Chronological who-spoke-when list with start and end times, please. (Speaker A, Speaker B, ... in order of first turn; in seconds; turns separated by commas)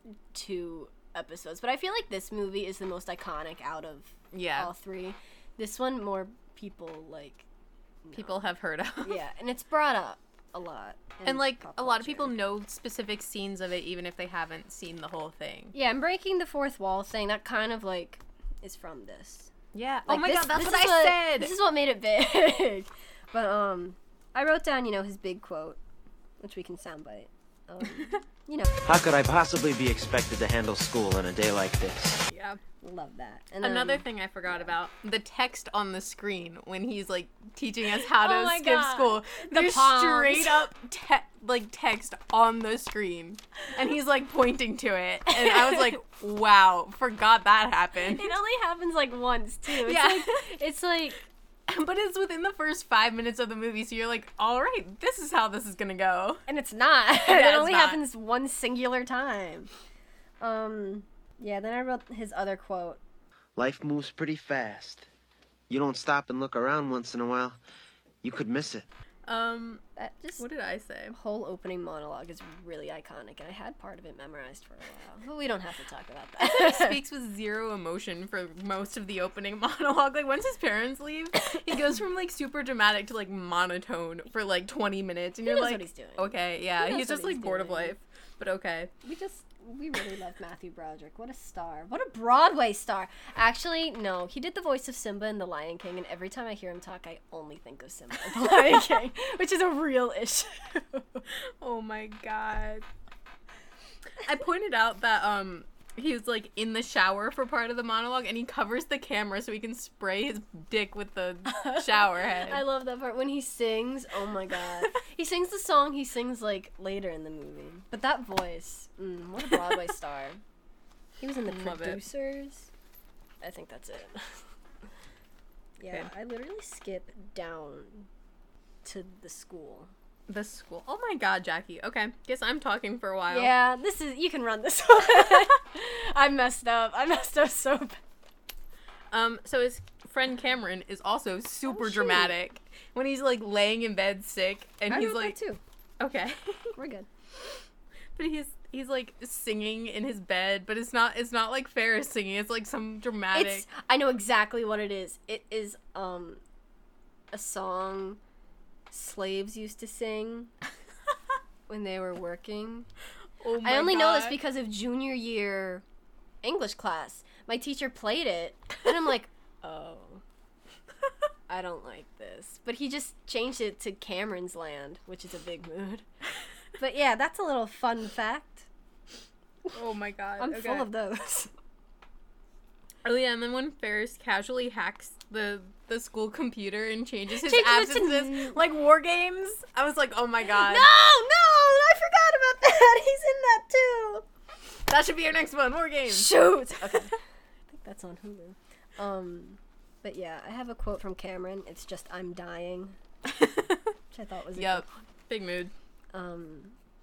Speaker A: 0.3-7.4, Speaker B: 4.3-4.7, Speaker A: 8.0-8.4, Speaker B: 8.1-9.2, Speaker A: 9.0-12.3, Speaker B: 11.2-15.7, Speaker A: 15.7-19.5, Speaker B: 19.7-21.5, Speaker A: 20.1-25.8, Speaker A: 26.4-28.8, Speaker C: 28.8-32.2, Speaker B: 32.3-32.6, Speaker A: 32.8-34.7, Speaker B: 33.6-48.3, Speaker A: 37.9-40.7, Speaker A: 45.3-46.0, Speaker A: 48.1-51.2, Speaker B: 49.8-50.4, Speaker B: 51.7-56.4, Speaker A: 56.5-59.7, Speaker B: 57.2-58.0, Speaker A: 60.4-63.0, Speaker C: 63.6-65.0, Speaker C: 65.7-67.6, Speaker C: 68.2-68.8, Speaker B: 69.3-69.8, Speaker A: 70.0-70.5, Speaker B: 70.4-71.2, Speaker A: 71.1-77.0, Speaker B: 76.4-88.9, Speaker A: 85.4-88.0, Speaker A: 89.0-101.2, Speaker B: 101.3-102.8, Speaker B: 104.2-112.6, Speaker A: 111.5-120.4, Speaker A: 121.2-122.7, Speaker B: 121.5-122.0, Speaker A: 123.4-124.4, Speaker A: 125.8-128.1, Speaker A: 128.8-129.9, Speaker B: 130.3-133.5, Speaker A: 133.3-138.0, Speaker B: 139.1-145.3, Speaker A: 141.7-142.3, Speaker A: 144.9-145.6, Speaker B: 146.0-146.7, Speaker A: 146.8-147.1, Speaker B: 148.2-153.7, Speaker A: 153.3-156.4, Speaker A: 157.3-158.2, Speaker A: 158.9-160.5, Speaker A: 161.7-162.9, Speaker B: 163.4-164.4, Speaker A: 163.6-165.8, Speaker A: 166.4-170.2, Speaker A: 171.5-176.0, Speaker A: 176.8-178.7, Speaker B: 179.7-180.9, Speaker A: 180.4-181.5, Speaker B: 183.0-190.9, Speaker A: 187.4-188.6, Speaker A: 190.5-194.2, Speaker B: 194.9-196.9, Speaker A: 196.1-197.2, Speaker A: 197.7-203.0, Speaker B: 203.3-203.9, Speaker A: 204.1-204.9, Speaker B: 204.6-205.7, Speaker A: 206.1-206.7